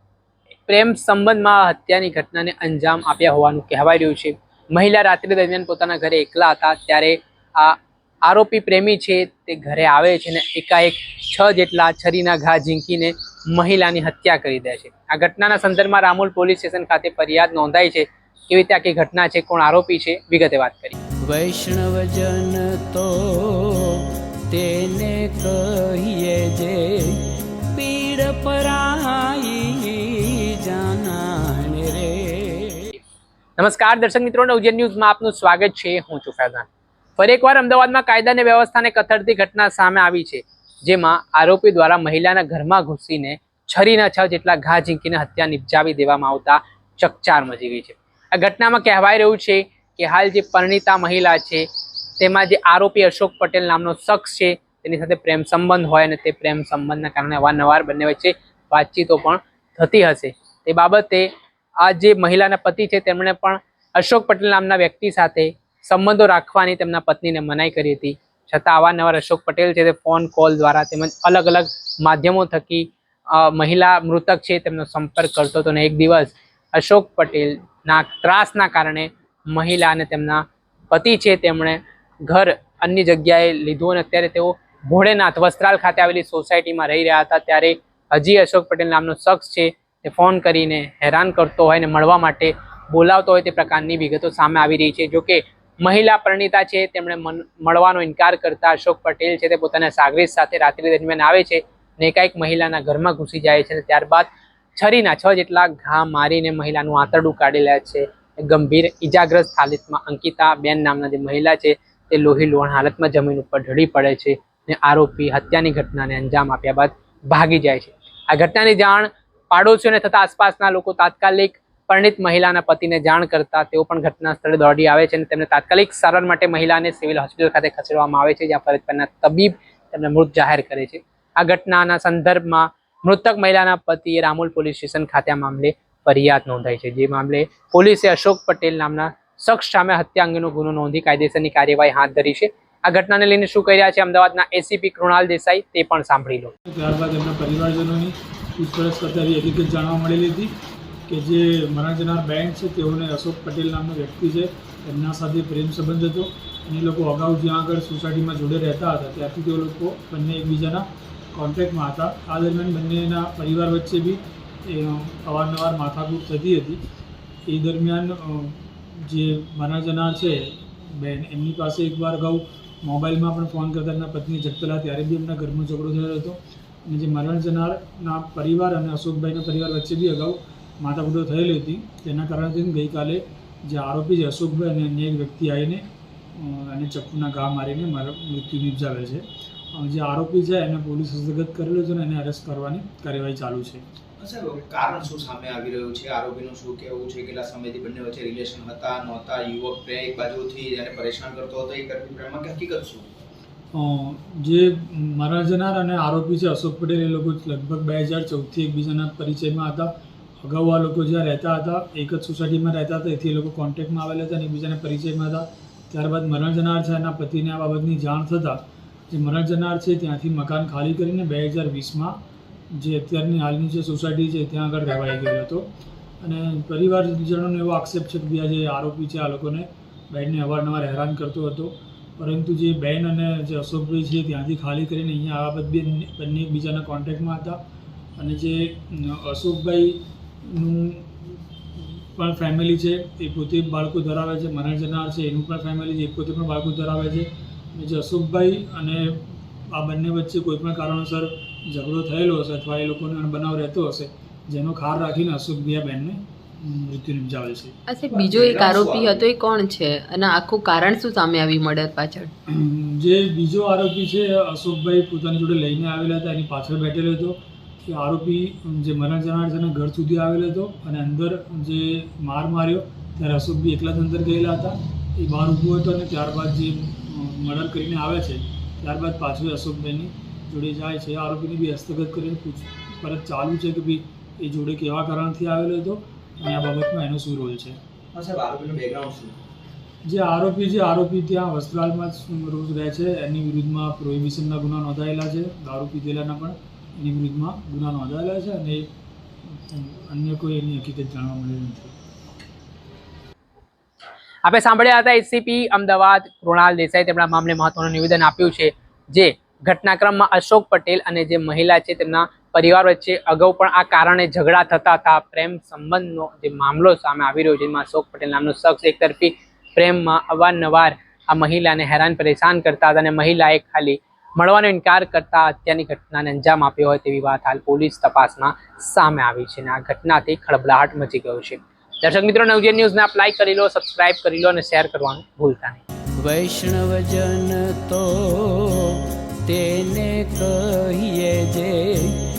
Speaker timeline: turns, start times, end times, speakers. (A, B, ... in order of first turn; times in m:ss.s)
0:00.7-0:21.0 A
0:21.2-0:27.2 B
0:27.7-0:32.9 B
0:33.6-0:51.7 A
0:52.2-1:01.3 A
1:01.8-2:26.5 A
2:26.7-2:30.5 C
2:31.1-2:46.8 C
2:47.5-3:05.8 C
3:06.3-3:13.8 C
3:14.2-3:23.1 D
3:23.7-3:42.2 C
3:42.7-3:45.7 C
3:46.2-3:57.6 C
3:58.2-4:17.7 C
4:17.9-4:22.3 E
4:18.1-4:19.3 D
4:22.5-4:47.8 C
4:48.1-4:49.4 D
4:50.1-4:58.9 C
4:59.5-5:02.0 C
5:04.4-5:35.8 A
5:36.2-5:42.2 B